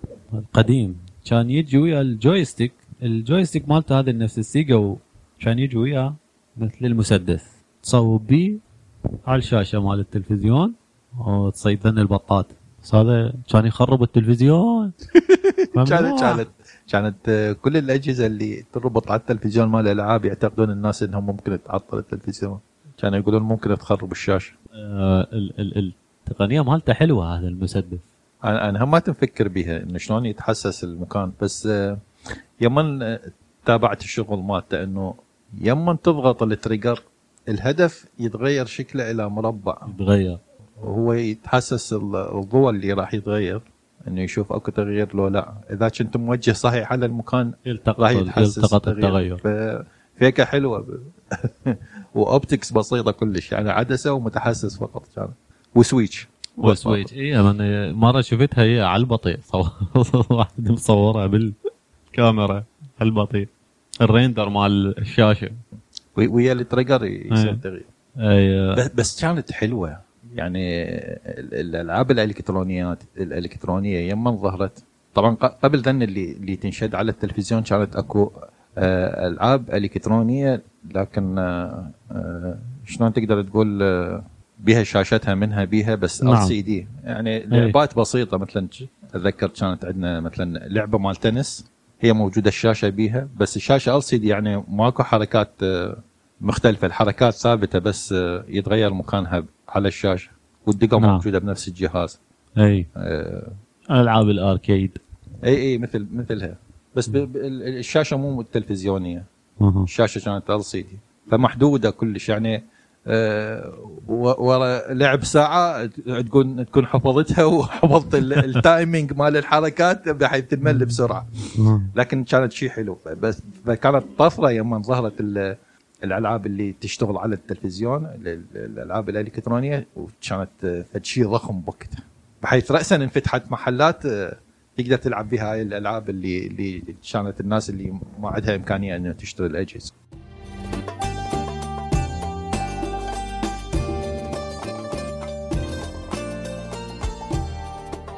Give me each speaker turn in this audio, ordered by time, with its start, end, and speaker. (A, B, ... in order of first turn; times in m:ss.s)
0:00.3-0:08.6 A
0:09.3-0:14.9 A
0:15.2-0:24.5 B
0:15.8-0:16.4 A
0:24.8-0:28.0 A
0:28.5-0:32.0 B
0:32.6-0:35.1 B
0:35.6-0:39.9 B
0:39.9-0:40.4 A
0:40.8-0:57.1 B
0:47.7-0:49.4 A
0:56.6-1:01.6 A
1:02.1-1:03.5 A
1:04.0-1:05.6 A
1:06.2-1:07.9 B
1:07.3-1:07.6 A
1:08.2-1:08.8 A
1:08.8-1:42.2 B
1:26.2-1:26.5 A
1:27.5-1:27.8 A
1:41.0-1:41.2 A
1:42.6-1:42.9 A
1:43.0-1:43.6 B
1:43.9-1:45.0 A
1:45.4-1:49.3 B
1:49.6-1:49.9 A
1:49.9-2:01.3 B
2:00.7-2:01.0 A
2:01.6-2:01.9 A
2:02.0-2:19.9 B